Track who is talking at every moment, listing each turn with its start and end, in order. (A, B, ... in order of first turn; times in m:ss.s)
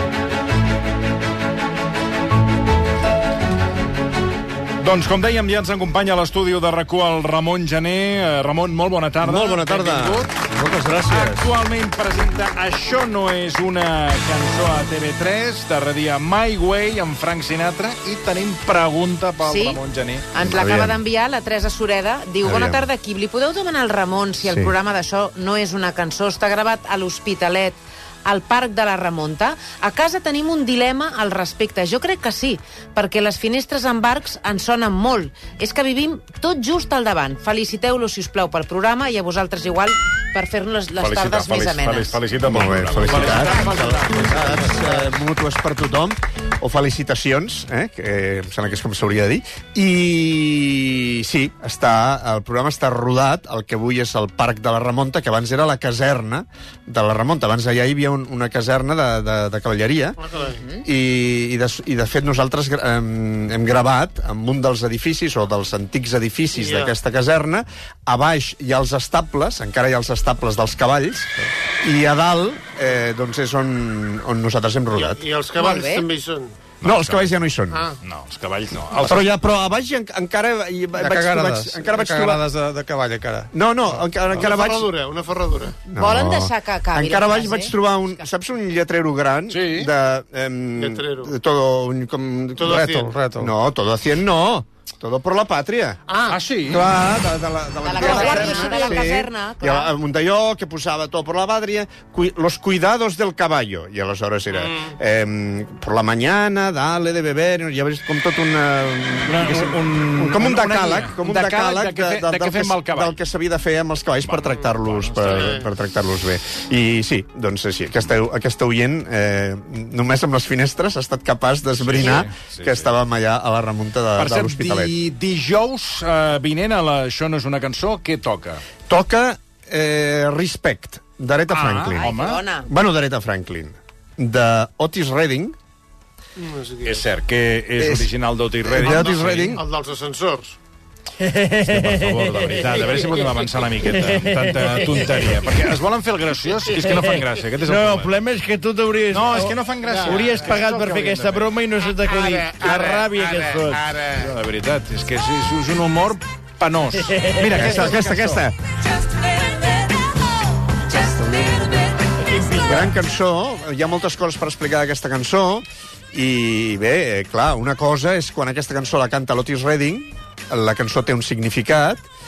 0:04.8-0:10.3 A
0:09.2-0:11.5 B
0:11.0-0:20.3 A
0:19.4-0:19.8 C
0:20.3-0:42.2 C
0:20.4-0:21.0 B
0:22.4-0:22.8 B
0:24.4-0:24.7 B
0:41.0-0:44.9 A
0:42.4-1:00.2 B
1:00.2-1:00.6 D
1:00.8-1:15.2 B
1:06.5-1:06.9 D
1:14.9-1:16.6 D
1:15.6-1:16.1 C
1:16.8-1:17.3 A
1:16.8-1:17.9 B
1:17.7-1:18.0 D
1:18.0-1:19.3 A
1:19.0-1:22.4 B
1:21.0-1:24.0 E
1:23.5-1:24.9 B
1:24.3-1:25.8 D
1:25.9-1:36.0 B
1:25.9-1:28.3 C
1:29.5-1:29.9 A
1:30.8-1:31.3 D
1:32.6-1:33.2 D
1:32.6-1:33.5 E
1:36.1-1:36.4 D
1:36.3-1:36.8 A
1:36.7-2:04.9 B
1:37.8-1:39.9 C
1:38.0-1:38.9 D
1:44.5-1:44.9 D
1:49.2-1:53.2 A
1:54.2-1:55.6 A
1:55.2-1:55.7 D
2:01.8-2:02.9 A
2:04.2-2:08.6 A
2:08.9-2:12.1 B
2:11.5-2:12.4 A
2:12.0-2:12.7 C
2:12.6-2:15.6 B
2:16.4-2:17.0 D
2:16.8-2:19.6 A
2:17.8-2:18.1 B
2:18.6-2:19.6 B
2:18.8-2:20.6 D
2:21.2-2:23.0 F
2:21.7-2:28.1 A
2:23.9-2:25.4 F
2:26.8-2:33.8 F
2:29.1-2:31.5 A
2:29.8-2:30.6 D
2:32.0-2:34.3 D
2:34.2-2:38.2 A
2:37.1-2:38.4 F
2:37.5-2:38.6 B
2:40.8-2:42.0 B
2:42.2-2:42.8 F
2:42.6-2:52.0 B